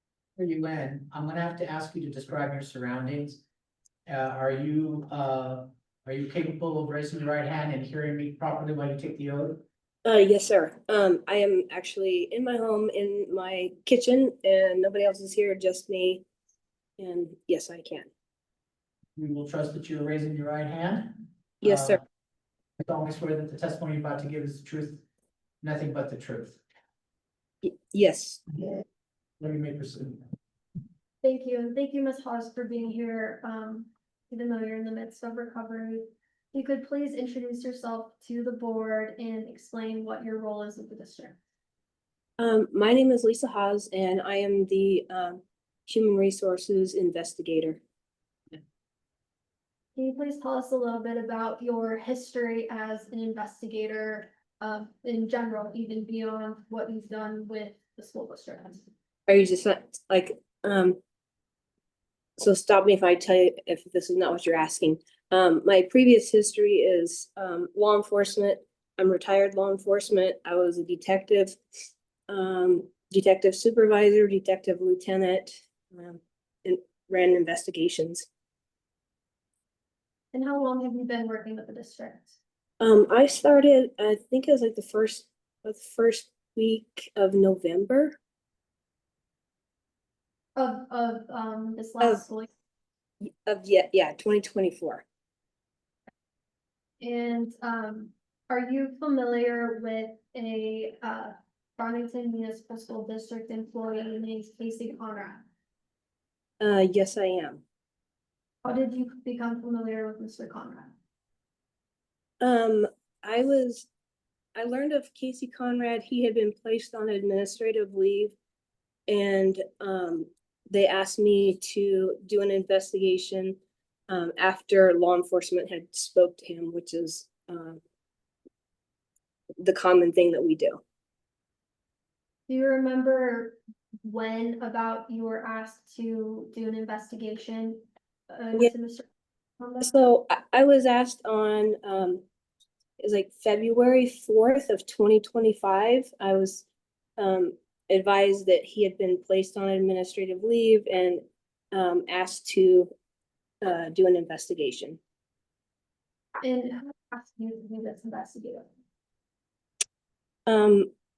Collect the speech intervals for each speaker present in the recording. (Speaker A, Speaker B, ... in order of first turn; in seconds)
Speaker A: 0.4-3.4, 4.0-9.6, 19.2-22.0, 22.8-25.0, 25.6-26.6, 29.4-30.2
Speaker B: 10.0-16.2, 17.0-18.1, 21.6-22.0, 27.6-28.4, 42.4-47.8, 59.3-61.0, 62.4-71.6, 72.3-78.2, 82.8-88.2, 93.2-95.0, 106.6-107.6, 112.4-113.9, 114.5-118.3, 119.1-127.8, 129.6-130.8, 139.8-142.2, 143.0-146.6, 147.2-152.9, 153.6-155.0, 160.5-160.9
Speaker C: 31.2-41.4, 49.9-58.9, 80.3-82.4, 90.5-92.5, 97.0-105.4, 108.6-110.9, 132.5-139.1, 139.6-139.9, 156.4-158.7